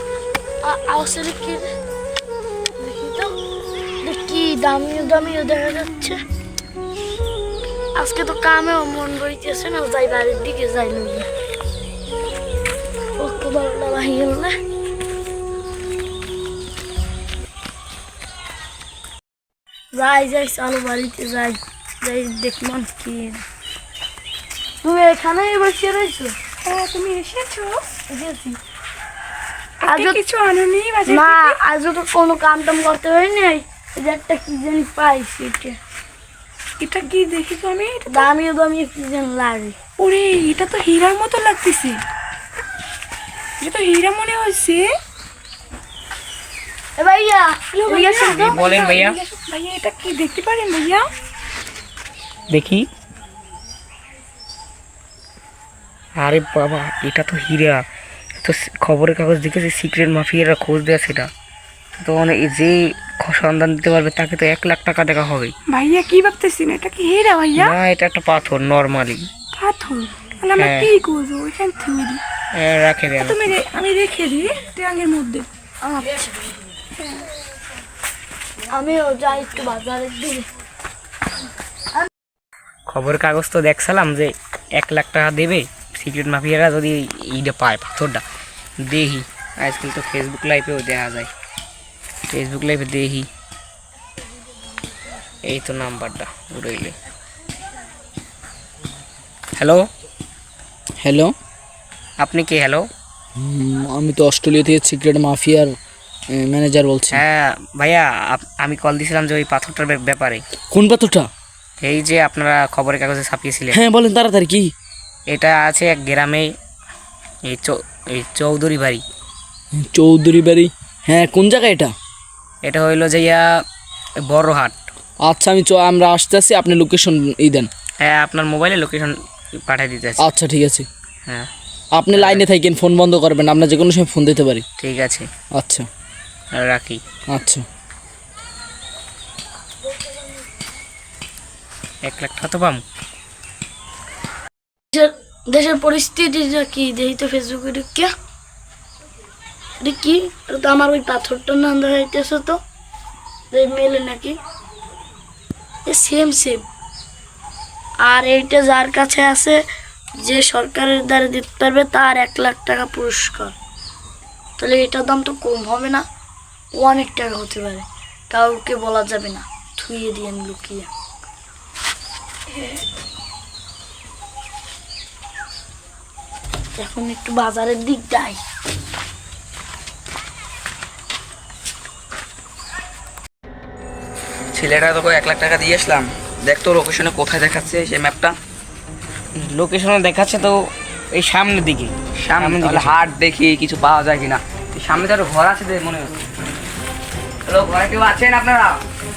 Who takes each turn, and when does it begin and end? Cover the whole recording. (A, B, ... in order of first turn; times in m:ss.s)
0:00.6-0:01.6 A
0:02.8-0:03.4 A
0:04.0-0:06.2 A
0:08.0-0:11.3 A
0:13.2-0:14.5 A
0:19.9-0:23.4 A
0:24.8-0:26.4 A
0:26.6-0:27.8 B
0:28.1-0:28.6 A
0:29.8-0:31.6 B
0:29.8-0:30.2 A
0:31.1-0:35.8 A
0:36.8-0:38.3 B
0:38.1-0:39.8 A
0:40.0-0:42.0 B
0:43.6-0:45.0 B
0:47.0-0:48.7 A
0:47.7-0:51.1 B
0:48.5-0:49.2 C
0:52.5-0:52.9 C
0:56.2-0:57.9 C
0:58.4-1:01.3 C
1:02.0-1:05.5 C
1:05.7-1:07.8 B
1:07.6-1:09.3 C
1:09.6-1:12.2 B
1:10.6-1:10.9 C
1:12.5-1:13.4 C
1:13.2-1:15.5 B
1:15.8-1:16.4 A
1:18.7-1:20.5 A
1:22.9-1:28.2 C
1:28.8-1:31.3 C
1:32.3-1:33.3 C
1:35.4-1:37.0 C
1:39.6-1:39.9 C
1:41.0-1:41.3 D
1:42.2-1:42.9 C
1:43.4-1:45.8 D
1:46.3-1:47.2 D
1:47.1-1:50.4 C
1:50.7-1:51.3 D
1:51.8-1:53.8 C
1:53.7-1:54.7 D
1:55.3-1:56.5 C
1:57.4-1:59.0 C
1:59.8-2:01.9 D
2:02.6-2:03.6 C
2:04.2-2:04.9 C
2:05.2-2:07.7 D
2:08.0-2:10.3 C
2:10.2-2:10.9 D
2:11.9-2:14.6 D
2:12.1-2:12.5 C
2:14.8-2:15.3 C
2:15.5-2:15.9 D
2:16.5-2:17.0 C
2:17.3-2:17.6 D
2:22.0-2:22.8 C
2:24.9-2:28.1 A
2:29.8-2:32.6 A
2:33.5-2:34.4 A
2:35.9-2:36.6 A
2:38.0-2:39.6 A
2:40.2-2:43.6 A
2:44.6-2:46.1 A
2:46.7-2:50.9 A
2:52.5-2:52.8 A
2:56.8-2:58.4 A
3:04.5-3:08.4 E
3:09.4-3:10.6 C
3:11.1-3:13.0 C
3:12.2-3:16.2 E
3:17.5-3:18.8 E